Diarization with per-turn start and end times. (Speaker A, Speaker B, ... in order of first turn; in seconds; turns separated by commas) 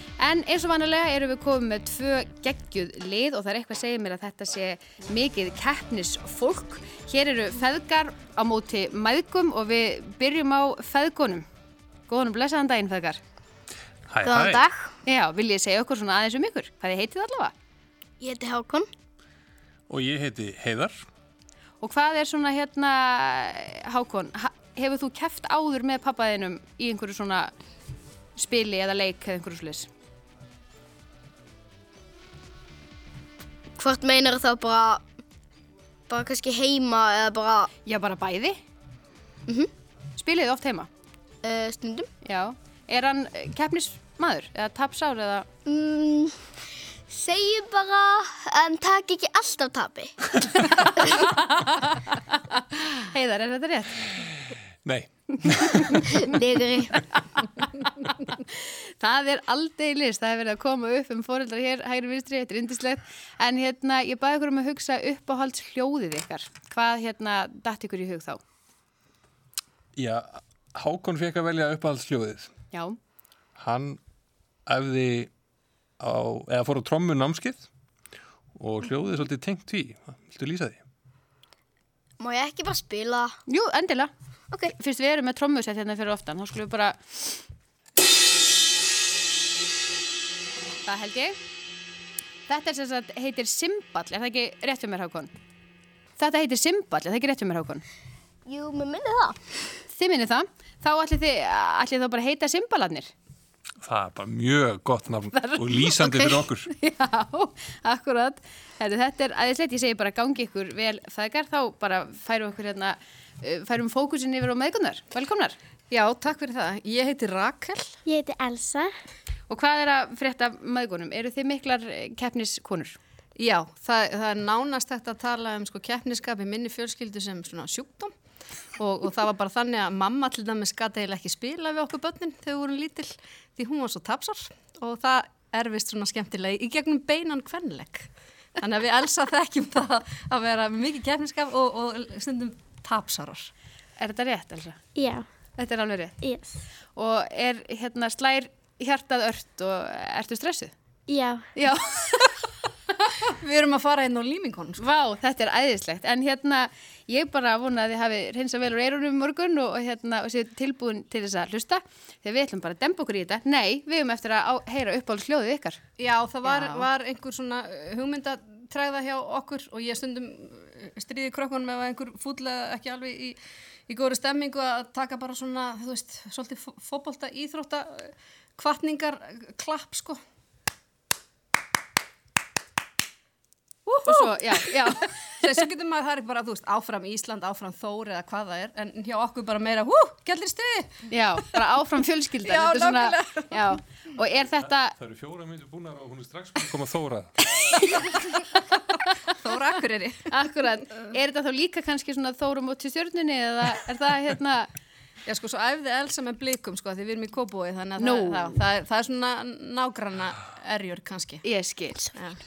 Speaker A: 0.2-11.4, Speaker A: 12.1-13.2, Speaker B: 14.1-14.7, Speaker C: 14.2-14.9, Speaker A: 15.1-17.5, Speaker C: 18.2-18.9, Speaker B: 19.9-21.0, Speaker A: 21.8-27.5, Speaker A: 28.4-29.9, Speaker C: 33.8-35.0, Speaker C: 36.1-37.7, Speaker A: 37.9-38.6, Speaker A: 40.2-40.9, Speaker C: 41.4-42.1, Speaker A: 42.2-45.5, Speaker C: 45.7-46.4, Speaker C: 47.1-50.1, Speaker A: 51.1-54.2, Speaker B: 54.8-56.0, Speaker A: 55.5-56.1, Speaker C: 56.2-56.9, Speaker A: 57.8-68.4, Speaker B: 70.0-72.5, Speaker B: 73.6-74.0, Speaker B: 74.7-75.3, Speaker B: 76.0-77.7, Speaker B: 78.5-80.8, Speaker C: 82.2-83.4, Speaker A: 83.5-84.1, Speaker A: 84.8-87.2, Speaker A: 90.9-91.4, Speaker A: 92.5-95.3, Speaker A: 96.2-97.8, Speaker C: 98.5-99.6, Speaker A: 99.9-103.1, Speaker B: 103.8-106.7, Speaker A: 105.3-115.6, Speaker D: 115.9-117.8, Speaker E: 118.1-118.9, Speaker A: 119.5-123.0, Speaker D: 123.4-128.1, Speaker D: 128.8-143.5, Speaker A: 144.0-144.8, Speaker E: 145.0-145.3, Speaker A: 145.6-146.2, Speaker E: 146.2-146.6, Speaker A: 146.9-150.7, Speaker E: 151.1-151.5, Speaker A: 151.6-152.5, Speaker D: 153.2-154.8, Speaker A: 154.8-165.8, Speaker D: 166.0-173.4, Speaker A: 166.4-166.9, Speaker D: 173.9-180.2, Speaker D: 183.9-191.0, Speaker A: 184.1-185.5, Speaker A: 191.1-195.0, Speaker D: 192.4-193.8, Speaker B: 195.0-197.3, Speaker D: 197.8-198.3, Speaker D: 199.3-200.2, Speaker A: 200.3-204.7, Speaker D: 205.3-211.4, Speaker A: 208.0-208.6, Speaker A: 211.4-212.1, Speaker D: 212.2-212.4